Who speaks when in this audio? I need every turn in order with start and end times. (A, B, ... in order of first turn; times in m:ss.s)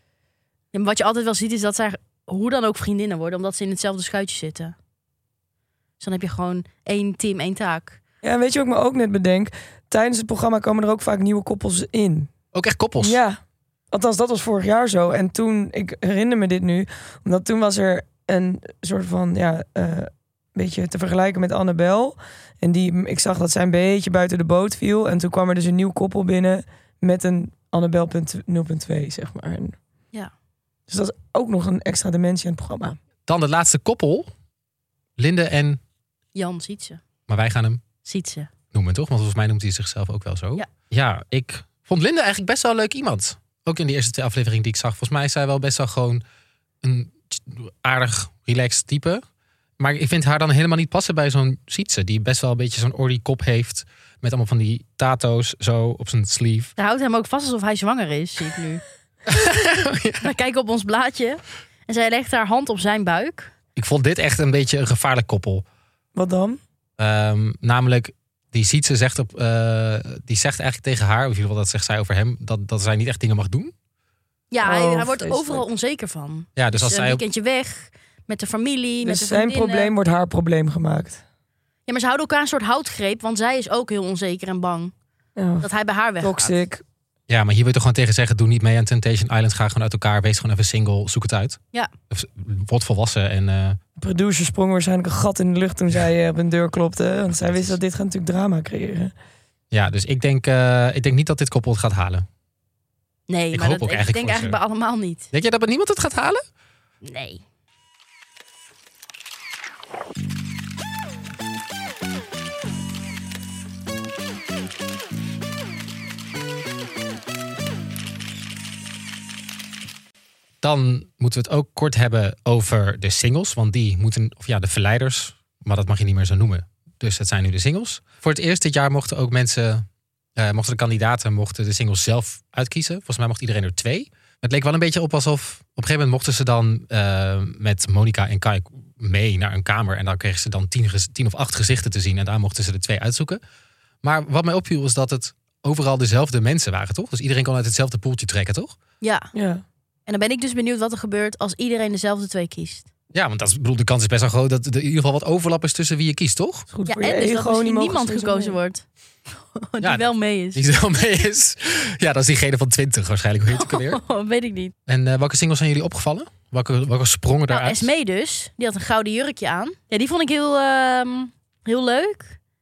0:00.7-0:04.8 A
0:06.0-0:08.0 A
0:08.2-0:12.3 B
0:12.5-0:13.2 C
0:13.0-0:13.4 B
0:13.9-0:29.8 B
0:30.9-0:33.0 B
0:33.3-0:34.3 C
0:35.2-0:35.8 C
0:36.4-0:37.0 A
0:37.3-0:37.8 C
0:38.0-0:38.5 A
0:38.7-0:46.2 C
0:46.8-0:49.2 C
0:49.8-0:56.7 C
0:56.8-0:58.8 A
0:59.3-1:00.3 C
1:00.2-1:03.5 A
1:03.8-1:05.6 C
1:06.2-1:06.6 B
1:07.0-1:13.7 C
1:14.5-1:19.9 A
1:14.6-1:15.6 B
1:16.6-1:17.2 C
1:19.0-1:21.2 B
1:21.9-1:24.9 A
1:25.4-1:25.7 B
1:25.6-1:26.6 A
1:26.2-1:26.8 B
1:27.3-1:31.6 C
1:32.1-1:33.8 C
1:34.0-1:39.1 B
1:37.3-1:37.8 C
1:39.7-1:42.3 C
1:43.3-1:45.3 A
1:43.5-1:44.6 C
1:45.3-1:46.4 C
1:47.0-1:47.4 A
2:00.6-2:09.8 C
2:10.4-2:23.4 C
2:24.0-2:28.8 C
2:29.0-2:29.3 A
2:29.3-2:29.6 B
2:30.1-2:32.9 A
2:33.1-2:36.7 C
2:36.7-2:38.6 B
2:36.9-2:38.8 A
2:39.5-2:40.6 A
2:39.8-2:44.0 C
2:43.5-2:44.7 A
2:44.9-2:47.9 C
2:47.5-2:52.4 A